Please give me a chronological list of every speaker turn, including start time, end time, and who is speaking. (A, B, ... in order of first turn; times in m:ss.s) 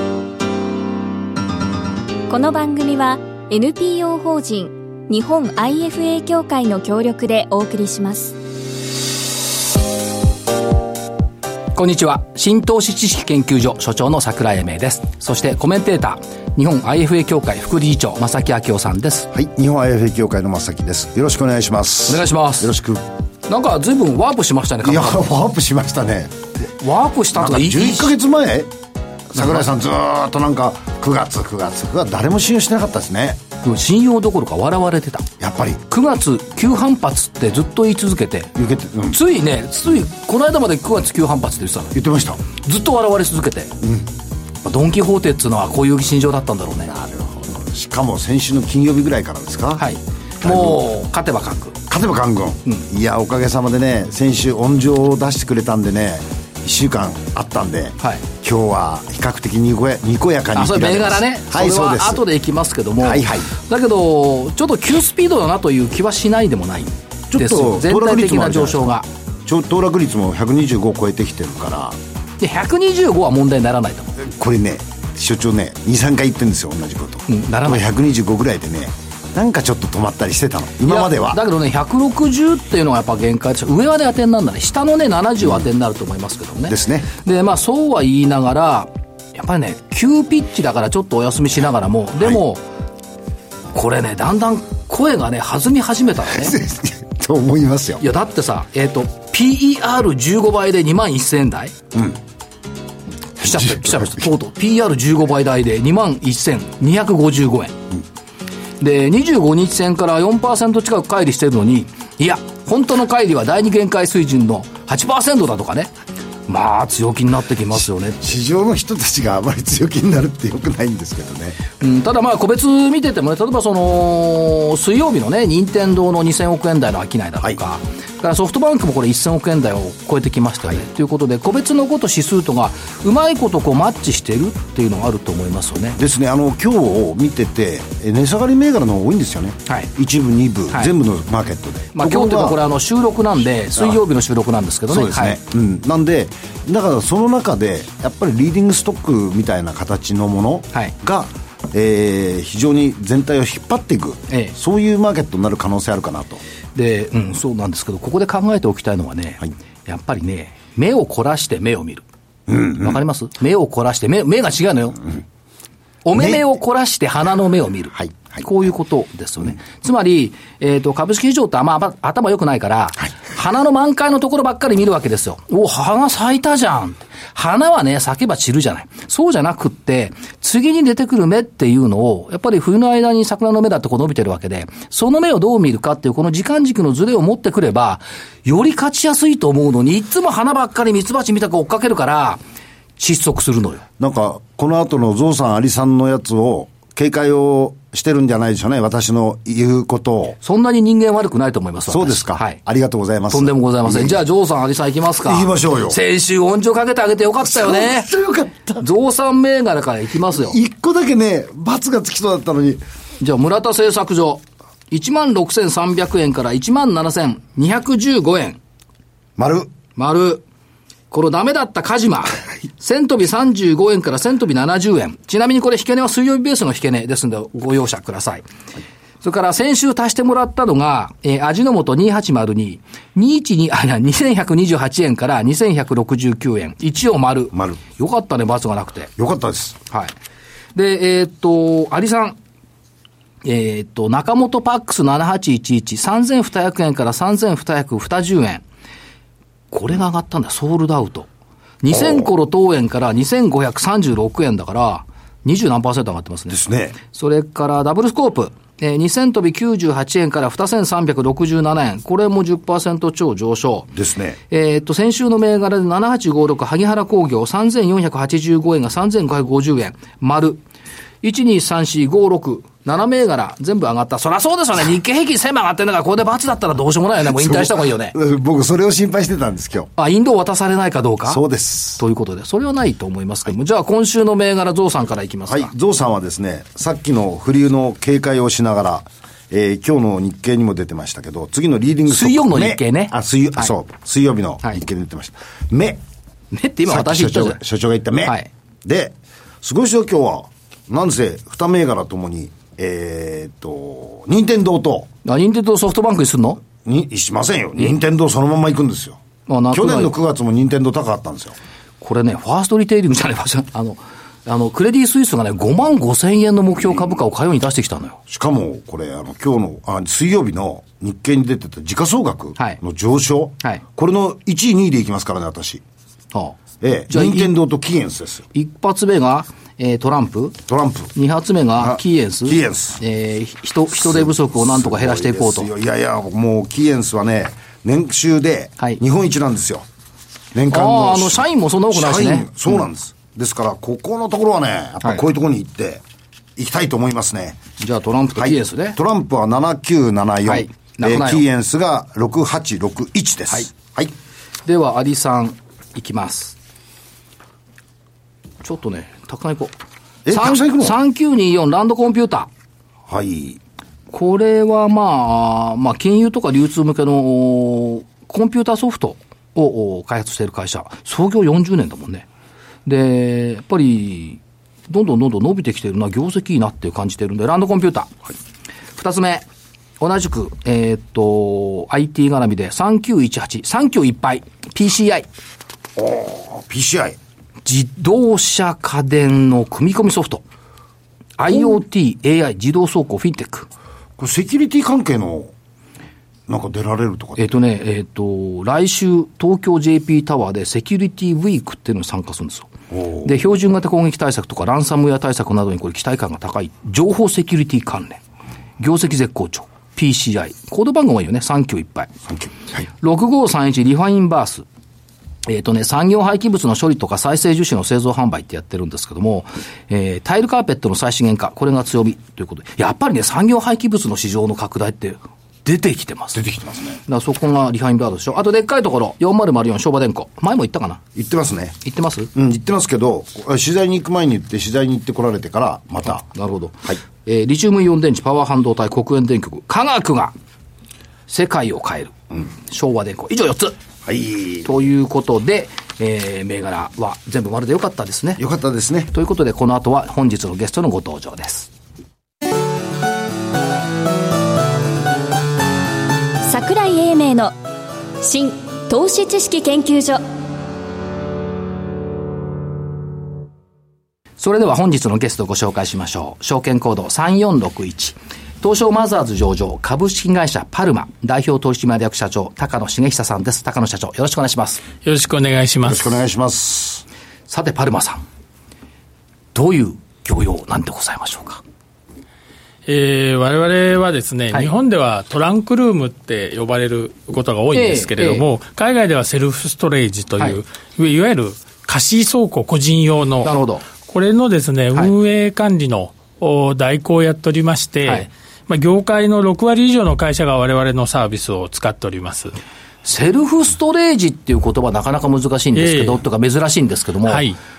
0:02.3-0:08.4 A
0:11.7-0:19.3 B
0:19.3-0:23.0 C
0:22.1-0:22.8 B
0:23.5-0:25.3 B
0:24.8-0:26.4 C
0:26.6-0:28.1 B
0:27.4-0:28.7 C
0:29.3-0:33.4 C
0:29.4-0:29.6 B
0:33.6-0:35.3 B
0:35.4-0:35.8 C
0:35.9-0:38.5 B
0:38.6-0:39.2 C
0:39.1-0:42.0 B
0:41.9-0:42.4 C
0:42.5-0:43.8 B
0:43.8-0:44.1 C
0:44.6-0:46.9 B
0:46.8-0:49.9 C
0:49.8-0:51.8 B
0:50.4-0:50.8 C
0:51.9-1:02.2 C
1:00.6-1:09.1 B
1:03.0-1:03.5 C
1:07.3-1:08.8 C
1:09.4-1:12.0 C
1:12.4-1:14.2 B
1:14.2-1:21.4 C
1:17.3-1:17.9 B
1:20.8-1:32.6 B
1:26.7-1:27.1 C
1:33.7-1:36.6 B
1:36.3-1:38.0 C
1:38.0-1:41.8 B
1:41.9-1:42.2 C
1:43.4-1:47.8 B
1:43.4-1:44.3 C
1:48.8-1:55.9 B
1:56.5-1:58.4 B
1:58.2-2:01.6 C
2:01.8-2:16.0 B
2:16.0-2:22.6 C
2:22.0-2:25.4 B
2:24.9-2:36.4 C
2:34.3-2:34.6 B
2:36.8-2:42.0 B
2:42.5-2:43.0 C
2:42.7-2:45.0 B
2:46.0-3:12.4 B
2:46.2-2:46.4 C
2:48.0-2:48.4 C
3:13.0-3:13.8 B
3:14.0-3:20.4 C
3:20.4-3:22.6 B
3:21.9-3:24.2 C
3:23.3-3:28.1 B
3:25.2-3:26.0 C
3:27.4-3:28.9 C
3:28.8-3:30.6 B
3:30.3-3:32.8 C
3:33.2-3:38.6 B
3:39.4-3:39.7 C
3:40.0-3:40.4 B
3:41.1-3:48.5 B
3:49.2-3:59.1 B
3:57.5-3:57.8 C
3:59.2-3:59.8 C
3:59.9-4:00.1 B
4:00.8-4:02.4 B
4:03.4-4:08.6 B
4:09.7-4:11.3 B
4:11.8-4:23.9 B
4:11.9-4:12.3 C
4:16.5-4:17.0 C
4:23.9-4:24.4 C
4:24.5-4:30.6 B
4:31.2-4:38.2 B
4:37.3-4:39.9 C
4:40.0-4:41.4 B
4:41.3-4:42.0 C
4:42.0-4:45.7 B
4:45.5-4:56.0 C
4:52.1-4:53.7 B
4:56.5-4:57.6 B
4:56.9-5:05.1 C
4:58.2-4:58.5 B
5:05.2-5:06.6 B
5:06.8-5:11.6 C
5:09.5-5:10.1 B
5:12.0-5:18.2 B
5:18.3-5:25.8 C
5:26.3-5:26.6 B
5:26.8-5:28.5 C
5:27.1-5:27.5 B
5:28.5-5:30.6 B
5:30.7-5:31.1 C
5:31.1-5:35.7 B
5:31.8-5:33.0 C
5:34.0-5:39.9 C
5:40.5-5:46.0 C
5:40.7-5:42.8 B
5:46.6-5:47.6 C
5:47.8-5:49.0 B
5:48.4-5:54.1 C
5:50.5-5:51.4 B
5:54.7-5:56.6 B
5:58.6-5:59.8 B
6:00.3-6:01.0 C
6:00.3-6:02.5 B
6:03.1-6:03.6 C
6:04.1-6:12.3 B
6:12.8-6:18.2 B
6:19.0-6:19.5 B
6:20.0-6:25.3 B
6:26.0-6:27.2 C
6:27.6-6:30.4 B
6:31.4-6:33.7 B
6:34.2-6:35.5 C
6:36.5-6:37.5 C
6:37.4-6:42.7 B
6:42.9-6:43.3 C
6:43.2-6:48.2 B
6:48.8-6:52.1 B
6:52.3-6:52.8 C
6:52.9-6:54.7 B
6:55.4-7:06.4 B
7:06.3-7:07.0 C
7:07.1-7:11.0 B
7:11.2-7:11.8 C
7:11.8-7:12.3 B
7:12.3-7:16.3 C
7:16.3-7:20.3 B
7:21.3-7:23.8 B
7:24.0-7:24.7 C
7:24.6-7:28.4 B
7:28.4-7:29.1 C
7:29.1-7:31.7 B
7:36.4-7:37.6 A
7:38.2-7:40.2 A
7:44.4-7:54.8 B
7:55.0-7:56.2 D
7:55.8-7:57.0 C
7:57.5-7:58.2 B
7:59.5-8:01.6 B
8:02.9-8:22.6 D
8:07.7-8:08.5 B
8:13.4-8:13.8 B
8:23.0-8:27.4 B
8:25.8-8:26.2 D
8:27.3-8:27.6 D